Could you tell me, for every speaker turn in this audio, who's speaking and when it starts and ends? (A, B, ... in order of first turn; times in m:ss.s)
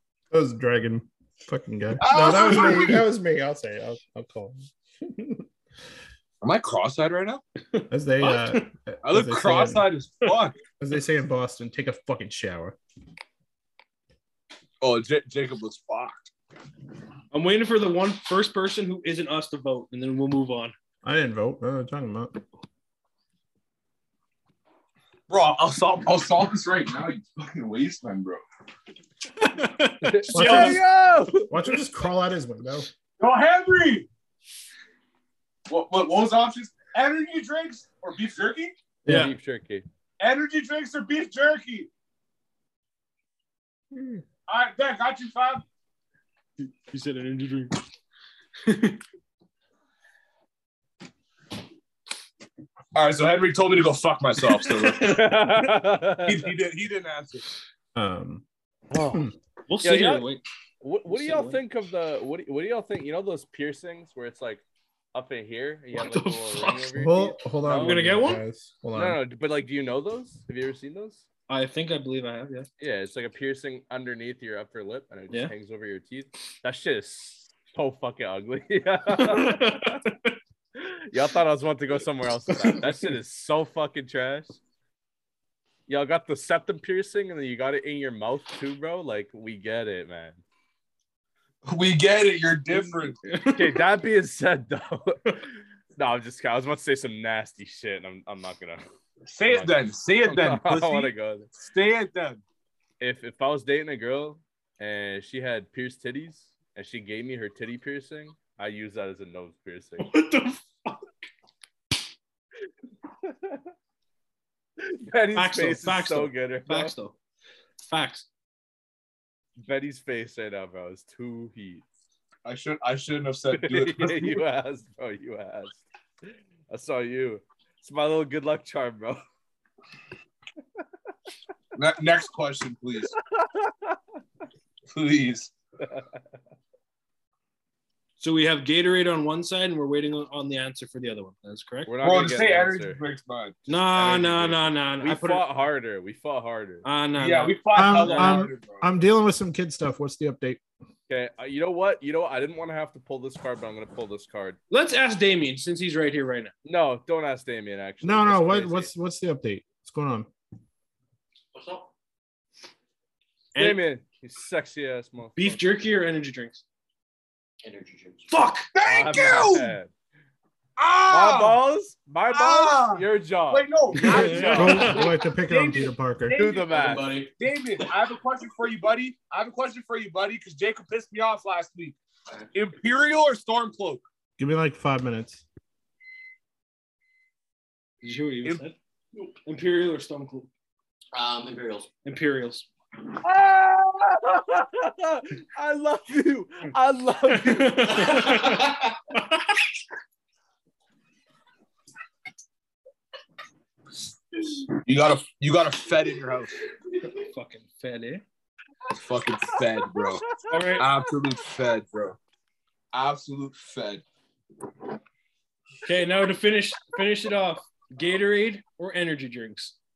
0:00.3-0:05.4 A
0:02.0-0:03.0 B
0:06.4-0:07.4 B
0:07.7-0:08.7 C
0:07.9-0:09.9 A
0:09.0-0:10.6 B
0:10.8-0:12.8 A
0:14.8-0:16.3 B
0:17.3-0:20.7 C
0:21.0-0:22.4 A
0:25.3-0:28.4 B
0:29.4-0:30.8 C
0:30.0-0:31.6 D
0:30.3-0:30.8 A
0:31.4-0:32.9 A
0:33.2-0:34.1 B
0:35.7-0:38.7 B
0:39.0-0:39.3 A
0:39.1-0:39.3 C
0:39.1-0:39.9 D
0:40.2-0:41.9 B
0:43.9-0:44.2 A
0:44.5-0:45.6 B
0:46.6-0:47.8 C
0:48.6-0:49.0 C
0:52.9-0:55.2 B
0:54.7-0:55.2 C
0:55.0-0:56.5 D
0:56.2-0:57.4 B
0:58.0-0:58.4 A
0:59.0-0:59.2 D
0:59.0-0:59.3 A
0:59.7-1:00.4 C
0:59.8-1:00.3 D
1:00.8-1:08.2 D
1:01.1-1:01.6 C
1:05.9-1:06.9 C
1:07.0-1:09.2 A
1:07.6-1:08.4 C
1:08.9-1:11.3 D
1:11.5-1:12.7 C
1:12.8-1:20.0 D
1:19.1-1:20.4 C
1:20.8-1:24.6 D
1:22.5-1:23.1 C
1:25.9-1:30.4 D
1:31.6-1:33.2 B
1:33.2-1:33.8 C
1:33.5-1:38.8 D
1:39.3-1:42.4 B
1:39.5-1:41.5 D
1:43.0-1:50.1 D
1:50.0-1:51.1 C
1:53.2-1:53.6 D
1:54.8-1:56.9 D
1:55.3-1:57.2 C
1:57.8-1:58.3 C
1:59.6-2:01.8 D
2:02.4-2:04.4 B
2:03.5-2:09.2 D
2:11.7-2:13.1 B
2:13.1-2:14.0 D
2:14.9-2:15.5 B
2:18.2-2:21.9 C
2:21.9-2:23.0 D
2:22.0-2:23.7 B
2:23.7-2:25.4 C
2:23.9-2:26.8 D
2:26.8-2:28.3 C
2:27.2-2:28.9 B
2:27.7-2:30.6 A
2:31.1-2:34.6 D
2:34.7-2:36.5 C
2:36.6-2:38.9 D
2:38.0-2:40.3 A
2:41.5-2:41.9 E
2:43.6-2:43.8 C
2:43.6-2:45.7 D
2:45.4-2:46.6 C
2:47.6-2:48.3 E
2:48.3-2:48.7 C
2:48.7-2:49.7 B
2:48.8-2:49.9 D
2:50.8-2:51.6 B
2:51.1-2:55.0 D
2:52.3-3:02.0 B
2:53.9-2:55.0 C
2:54.6-2:56.4 A
2:56.4-2:57.1 D
2:56.7-2:57.3 E
3:02.5-3:04.0 B
3:04.4-3:05.4 A
3:08.0-3:08.8 C
3:09.4-3:10.5 C
3:11.1-3:11.9 E
3:12.0-3:12.7 C
3:13.2-3:18.6 D
3:17.2-3:19.6 C
3:18.3-3:19.0 E
3:24.8-3:26.6 B
3:27.0-3:28.2 C
3:28.9-3:32.2 B
3:30.0-3:30.9 D
3:30.5-3:30.9 C
3:32.9-3:34.0 B
3:35.8-3:39.8 C